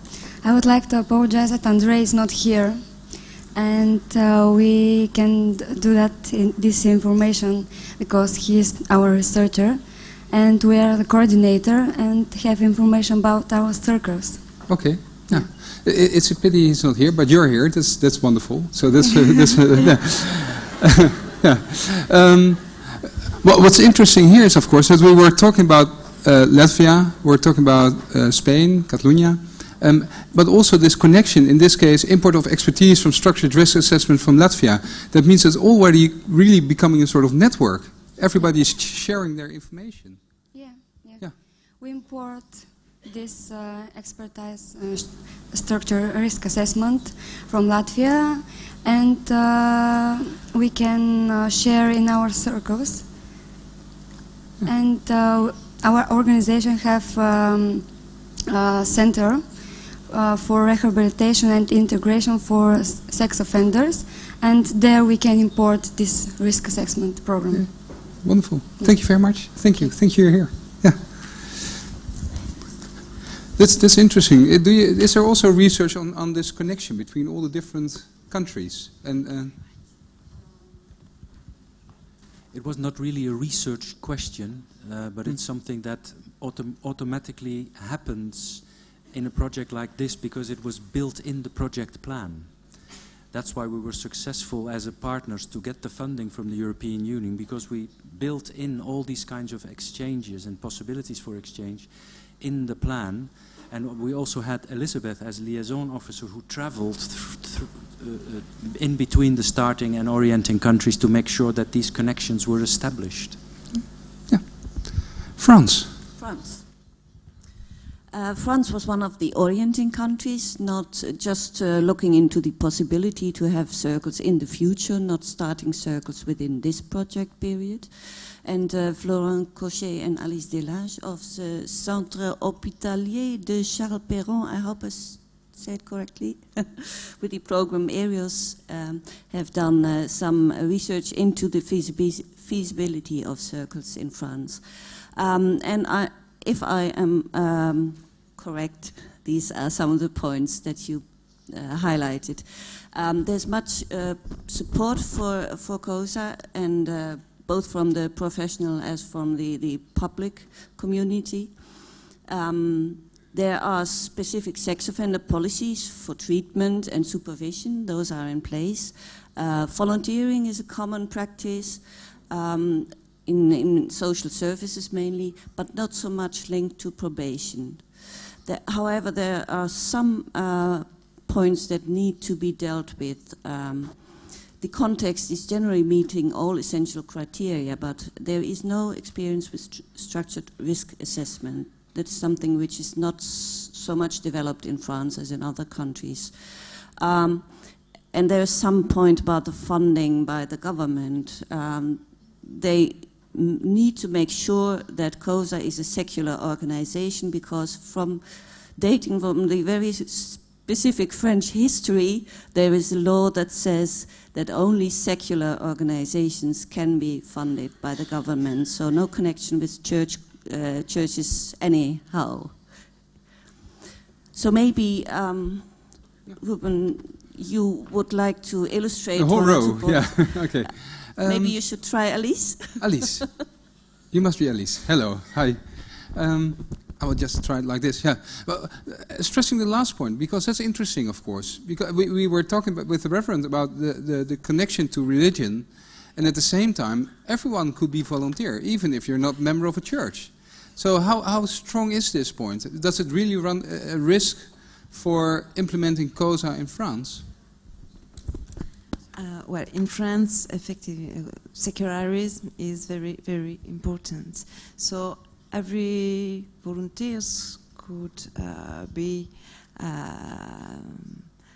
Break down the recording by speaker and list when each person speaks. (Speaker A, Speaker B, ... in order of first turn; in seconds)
Speaker A: 0.4-14.6, 15.2-15.6, 40.5-53.1, 54.6-68.2, 68.8-70.0
Speaker B: 14.7-40.2, 67.5-71.7, 73.5-79.6, 114.3-116.0, 229.2-231.6, 232.8-233.4, 234.1-257.3
Speaker C: 82.5-113.4
Speaker D: 116.2-116.7, 118.1-222.9, 224.3-233.3
Speaker E: 259.2-270.9